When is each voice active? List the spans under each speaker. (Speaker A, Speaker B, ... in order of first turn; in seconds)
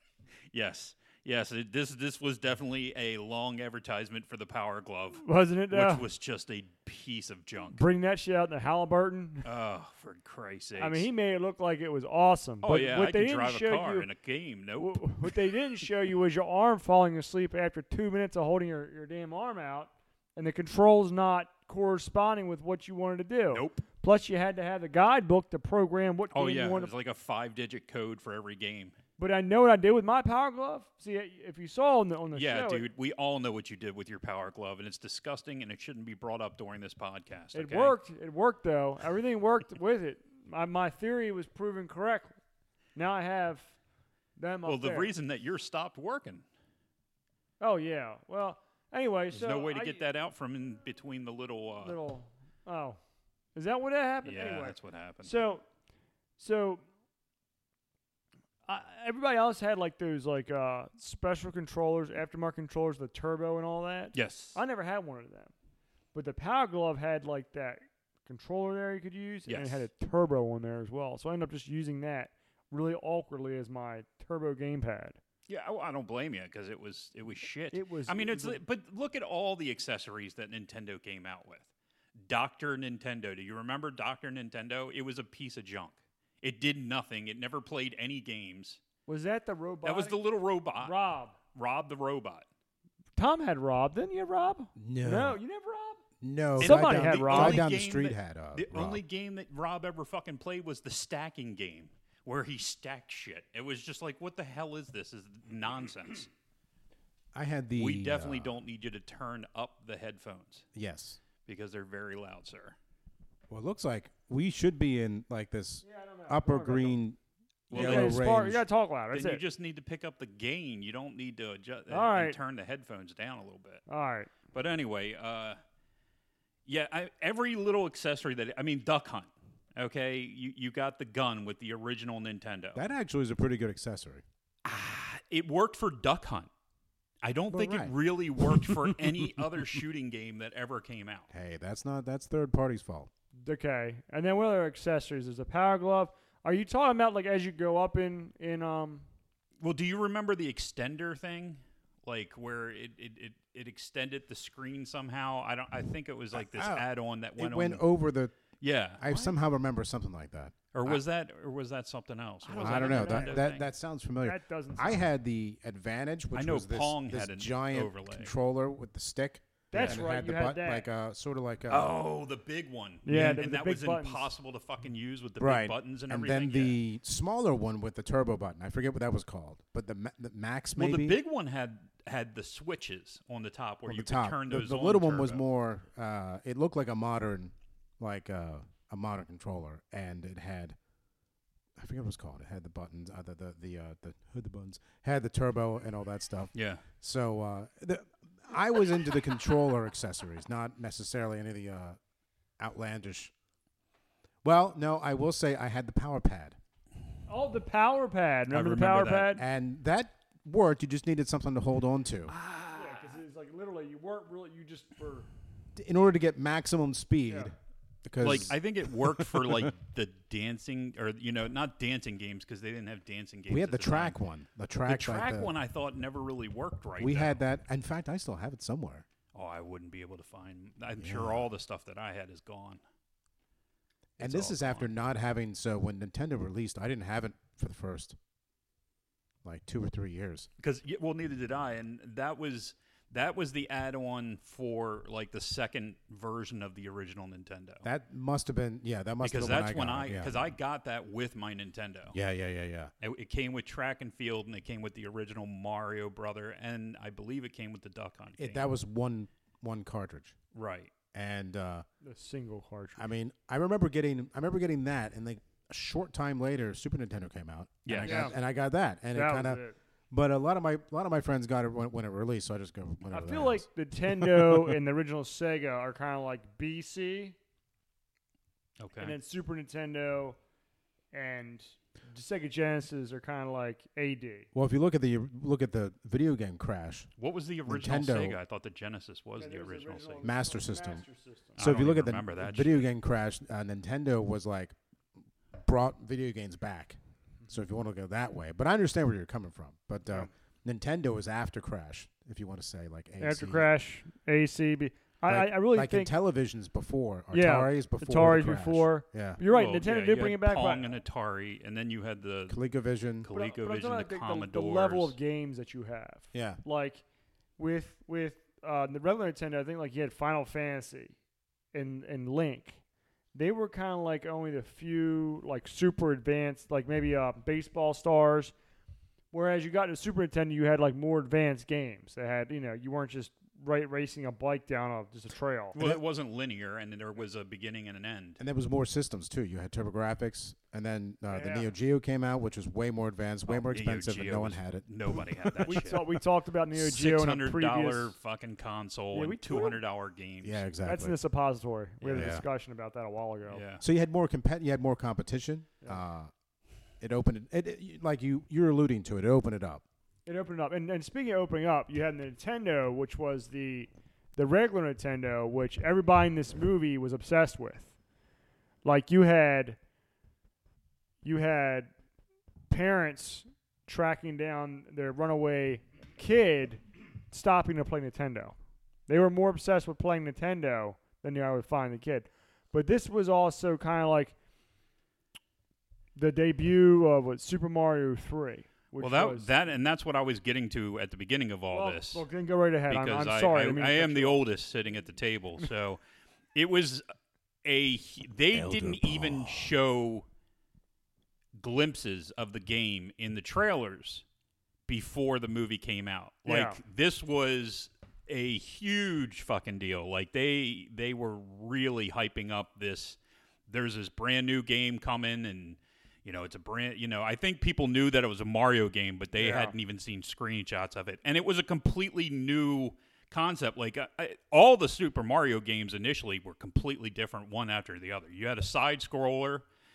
Speaker A: 0.5-7.8, 9.4-11.1, 12.6-15.4, 23.5-23.9, 26.3-29.0, 32.3-38.0, 44.7-46.5, 49.3-52.0, 54.2-55.3, 64.1-64.6, 69.5-69.8, 75.5-81.7, 82.2-88.8, 89.8-91.0, 91.5-92.5, 96.6-106.3, 107.8-110.7, 111.5-112.8, 117.7-118.2, 119.1-123.8, 124.5-125.6, 126.7-132.8, 134.7-136.5, 137.2-141.3, 149.6-157.8, 158.6-159.3, 160.7-163.7, 166.3-168.3, 169.7-170.1, 171.7-176.8, 180.8-185.4, 196.6-196.8, 208.5-209.4, 212.3-213.2, 218.2-224.2, 224.8-227.4, 229.3-232.8, 234.2-234.9, 240.6-247.8, 249.2-252.2, 253.0-258.7, 260.5-260.9, 267.9-268.3, 278.8-279.2, 287.2-290.2, 291.6-292.9, 309.5-312.6, 313.2-315.1, 335.8-338.4, 343.5-346.2, 346.7-350.6, 352.0-352.4, 353.5-353.8, 389.0-392.2, 392.9-396.0, 396.6-397.0, 397.6-400.2, 401.6-404.2, 404.9-429.6
Speaker B: 5.2-6.0, 7.7-9.5, 10.8-14.1, 14.8-26.9, 29.2-32.9, 37.5-42.4, 43.0-43.8, 44.4-45.1, 47.6-50.0, 51.8-53.0, 53.5-55.6, 56.4-56.8, 58.7-65.5, 66.1-75.2, 77.7-78.6, 89.1-90.2, 90.8-91.4, 93.2-96.0, 96.6-97.6, 115.8-117.0, 117.7-119.4, 121.9-122.4, 123.9-124.3, 143.4-149.1, 162.5-163.4, 164.2-165.1, 169.7-170.9, 173.1-174.3, 207.3-209.4, 212.7-215.3, 262.0-263.1, 268.0-268.3, 269.1-269.8, 273.1-277.4, 279.0-280.4, 281.1-284.5, 289.4-291.7, 303.2-306.1, 307.3-310.9, 313.3-317.0, 317.6-321.1, 321.7-322.8, 323.3-328.5, 329.3-335.8, 341.3-341.7, 345.7-348.1, 349.1-349.8, 350.9-353.6, 360.3-367.9, 368.8-369.8, 371.2-371.9, 372.7-378.6, 379.1-384.4, 386.2-389.5, 391.7-394.4, 406.5-406.8, 419.4-419.7
Speaker C: 94.8-95.4, 96.2-99.0, 107.3-108.5, 110.8-111.2, 113.5-117.2, 117.7-118.6, 132.8-134.2, 137.5-137.9, 141.3-143.1, 156.3-158.3, 159.0-161.0, 162.5-171.9, 175.4-181.2, 183.9-190.8, 191.8-202.0, 202.6-203.3, 204.4-206.6, 209.4-212.3, 215.8-219.7, 223.5-225.5, 227.0-229.1, 231.0-231.5, 234.2-238.2, 239.4-240.5, 247.8-250.5, 252.1-252.9, 258.4-260.4, 261.1-261.9, 263.0-274.7, 284.5-287.1, 287.7-288.4, 290.2-291.1, 291.6-294.8, 295.6-303.7, 305.3-309.4, 312.5-313.3, 316.3-316.6, 338.4-345.8, 350.4-351.2, 352.1-352.4, 353.8-356.3, 357.0-359.8, 398.5-399.7